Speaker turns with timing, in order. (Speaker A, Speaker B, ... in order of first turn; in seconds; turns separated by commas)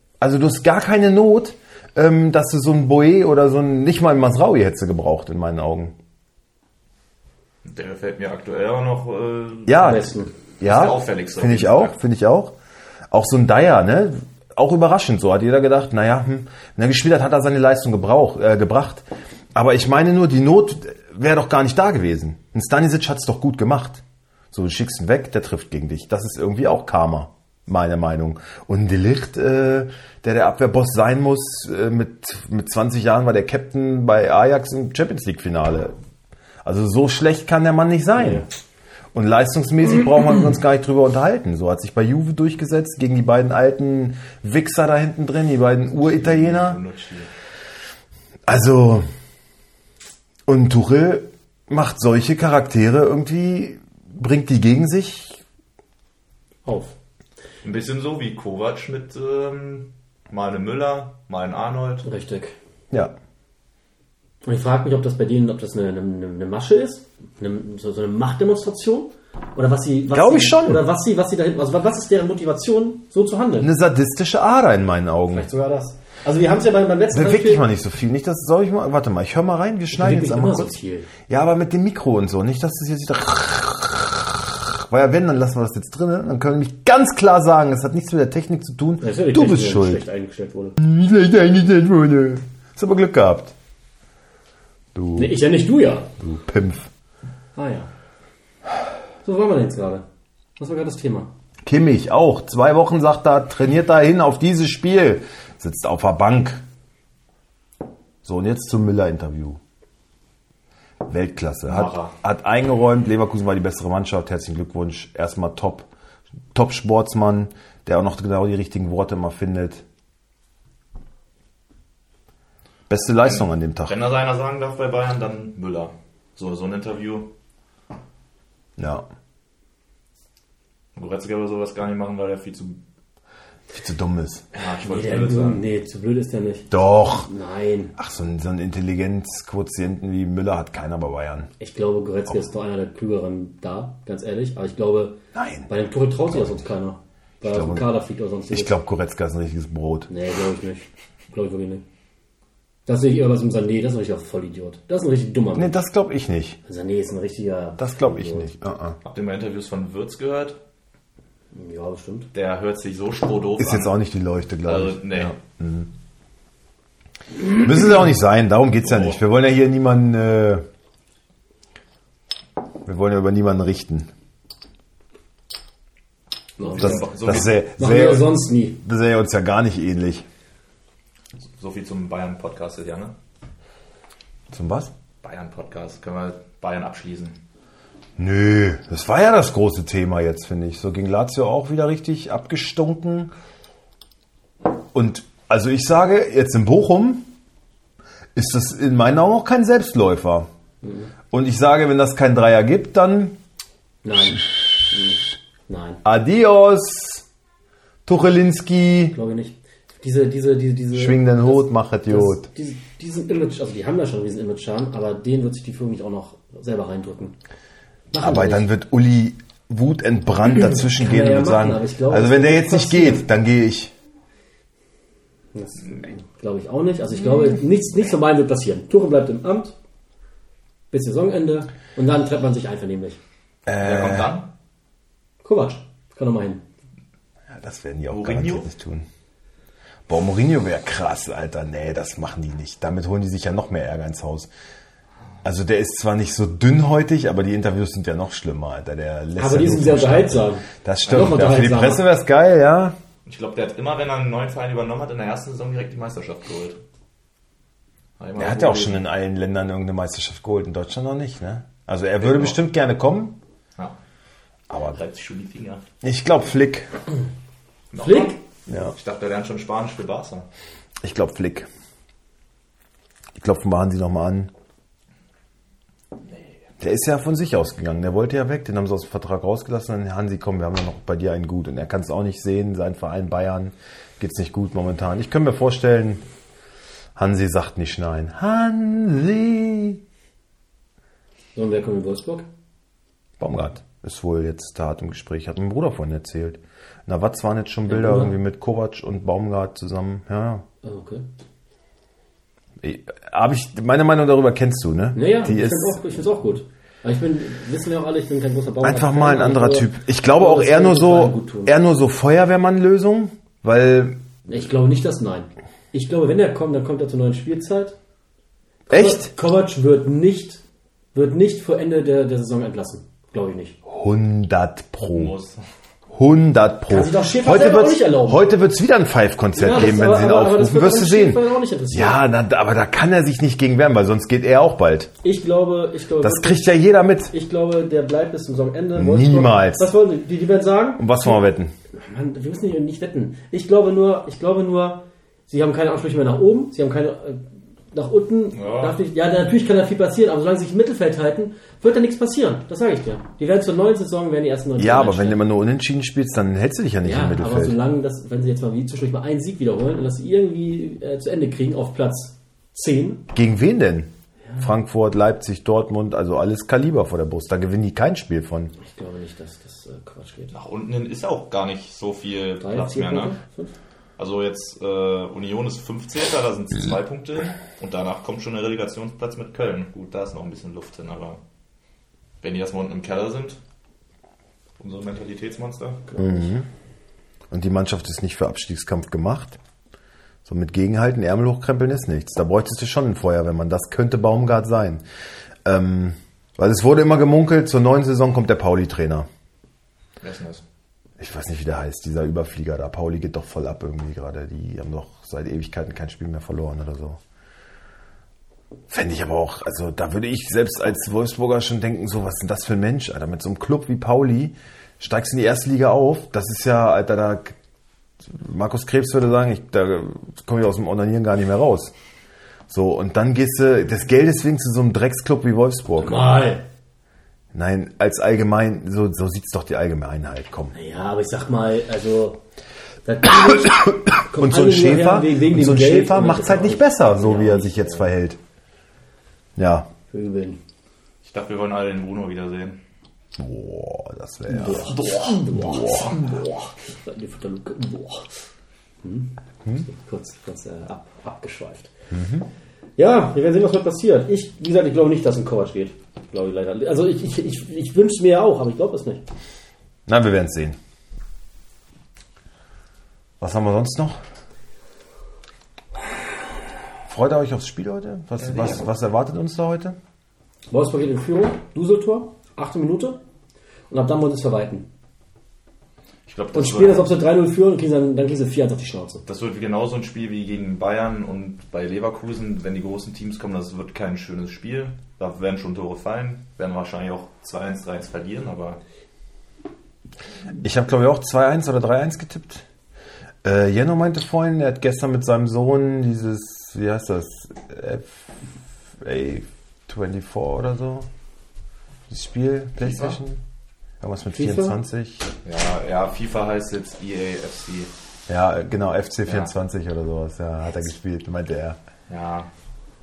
Speaker A: 0.2-6.0, Speaker B: 7.6-10.1, Speaker A: 9.7-10.1, Speaker C: 9.8-10.3, Speaker B: 10.6-11.9, Speaker A: 10.6-12.6, Speaker A: 13.1-35.9, Speaker A: 36.6-38.5, Speaker C: 38.2-38.5, Speaker A: 39.1-46.8, Speaker B: 46.0-47.3, Speaker A: 48.5-49.0, Speaker A: 50.5-55.4, Speaker C: 56.7-57.0, Speaker B: 57.6-62.1, Speaker C: 62.0-62.6, Speaker C: 64.4-73.7, Speaker A: 70.1-70.9, Speaker A: 73.6-75.5, Speaker C: 75.3-77.7, Speaker A: 77.1-80.8, Speaker C: 79.9-81.1, Speaker A: 81.3-90.0, Speaker C: 89.0-90.8, Speaker A: 90.8-93.5, Speaker A: 95.0-95.4, Speaker C: 95.2-96.1, Speaker A: 96.2-96.9, Speaker C: 97.6-97.9, Speaker C: 99.2-100.0, Speaker C: 100.6-101.3, Speaker A: 101.7-106.6, Speaker A: 108.2-109.6, Speaker A: 111.0-115.9, Speaker B: 111.7-112.2, Speaker A: 116.5-119.8, Speaker A: 122.9-124.0, Speaker B: 123.2-127.3, Speaker A: 128.8-129.1, Speaker B: 131.0-132.8, Speaker A: 133.7-134.4, Speaker B: 134.5-135.7, Speaker C: 134.8-137.9, Speaker A: 136.7-137.3, Speaker A: 138.0-141.5, Speaker C: 141.6-148.8, Speaker A: 145.3-145.7, Speaker A: 147.4-147.9, Speaker A: 148.5-150.1, Speaker C: 150.1-151.8, Speaker C: 152.9-155.8, Speaker A: 155.6-156.6, Speaker C: 156.7-158.5, Speaker A: 157.8-159.0, Speaker B: 159.0-160.6, Speaker C: 161.5-162.3, Speaker B: 162.3-163.9, Speaker A: 163.6-165.9, Speaker B: 164.7-165.3, Speaker A: 167.4-170.7, Speaker B: 168.8-169.2, Speaker A: 172.8-174.1, Speaker C: 176.6-178.8, Speaker B: 176.6-177.6, Speaker A: 176.8-180.3, Speaker B: 181.4-183.2, Speaker A: 184.5-184.9, Speaker B: 185.2-187.4, Speaker A: 188.2-193.3, Speaker A: 194.9-197.3, Speaker A: 198.3-200.5, Speaker C: 200.8-201.1, Speaker A: 201.3-203.4, Speaker C: 204.0-206.0, Speaker A: 206.1-207.2, Speaker A: 208.1-209.2, Speaker C: 209.1-217.4, Speaker A: 210.9-212.5, Speaker C: 218.1-218.7, Speaker A: 218.2-223.9, Speaker C: 220.8-223.3, Speaker C: 225.5-229.8, Speaker C: 230.9-233.2, Speaker A: 233.7-234.4, Speaker B: 233.8-234.5, Speaker C: 235.4-236.6, Speaker A: 237.5-239.1, Speaker B: 238.1-238.7, Speaker A: 240.1-244.5, Speaker A: 245.4-253.0, Speaker C: 249.4-252.1, Speaker B: 253.3-256.8, Speaker B: 258.2-259.0, Speaker A: 258.4-263.4, Speaker B: 262.2-262.6, Speaker A: 264.7-265.0, Speaker B: 264.9-265.8, Speaker A: 266.0-266.9, Speaker B: 267.9-270.5, Speaker C: 268.0-268.4, Speaker A: 268.7-268.9, Speaker A: 271.0-271.7, Speaker A: 273.4-274.5, Speaker A: 276.8-286.2, Speaker A: 287.2-290.0, Speaker C: 291.6-292.5, Speaker A: 293.4-300.6, Speaker C: 297.9-298.4, Speaker C: 300.8-301.3, Speaker A: 302.8-306.0, Speaker C: 305.1-311.8, Speaker A: 308.8-314.2, Speaker C: 314.5-318.0, Speaker C: 318.9-320.6, Speaker A: 318.9-319.3, Speaker C: 321.1-323.8, Speaker A: 323.9-325.4, Speaker B: 325.1-325.6, Speaker A: 326.1-335.1, Speaker C: 326.9-328.5, Speaker C: 329.6-332.2, Speaker C: 335.2-336.7, Speaker A: 336.2-337.3, Speaker C: 337.3-341.4, Speaker A: 339.0-339.9, Speaker A: 341.0-341.7, Speaker C: 341.9-355.4, Speaker B: 348.6-349.0, Speaker A: 354.8-357.8, Speaker C: 357.0-363.3, Speaker A: 363.3-368.7, Speaker C: 368.8-370.5, Speaker B: 370.5-373.4, Speaker C: 372.6-373.8, Speaker B: 374.2-381.4, Speaker B: 382.4-383.6, Speaker B: 384.8-386.1, Speaker C: 386.1-386.5, Speaker A: 386.2-386.7, Speaker A: 387.5-389.6, Speaker A: 390.4-395.0, Speaker A: 395.6-399.3, Speaker B: 400.2-400.6, Speaker A: 401.2-407.2, Speaker A: 408.9-417.6, Speaker A: 418.2-421.9, Speaker A: 422.7-426.4, Speaker C: 426.0-426.6, Speaker A: 427.5-430.7, Speaker C: 430.7-432.4, Speaker C: 433.1-438.1, Speaker A: 433.9-438.4, Speaker A: 439.6-439.9, Speaker C: 440.1-440.6, Speaker B: 441.2-442.8, Speaker A: 443.4-445.0, Speaker C: 444.5-448.3, Speaker B: 444.8-445.4, Speaker A: 445.5-446.1, Speaker C: 449.0-451.9, Speaker A: 452.1-452.5, Speaker C: 453.0-459.2, Speaker A: 460.1-460.8, Speaker A: 463.4-464.2, Speaker A: 467.1-470.0, Speaker C: 470.7-473.2, Speaker C: 473.9-474.9, Speaker B: 476.3-477.1, Speaker C: 476.5-479.2, Speaker B: 479.3-488.8, Speaker A: 490.6-492.7, Speaker A: 493.4-501.1, Speaker A: 502.1-503.4, Speaker B: 502.8-503.2, Speaker A: 504.0-505.3, Speaker C: 504.3-504.8, Speaker B: 505.4-507.9, Speaker A: 508.3-511.8, Speaker B: 509.3-509.5, Speaker B: 512.1-512.5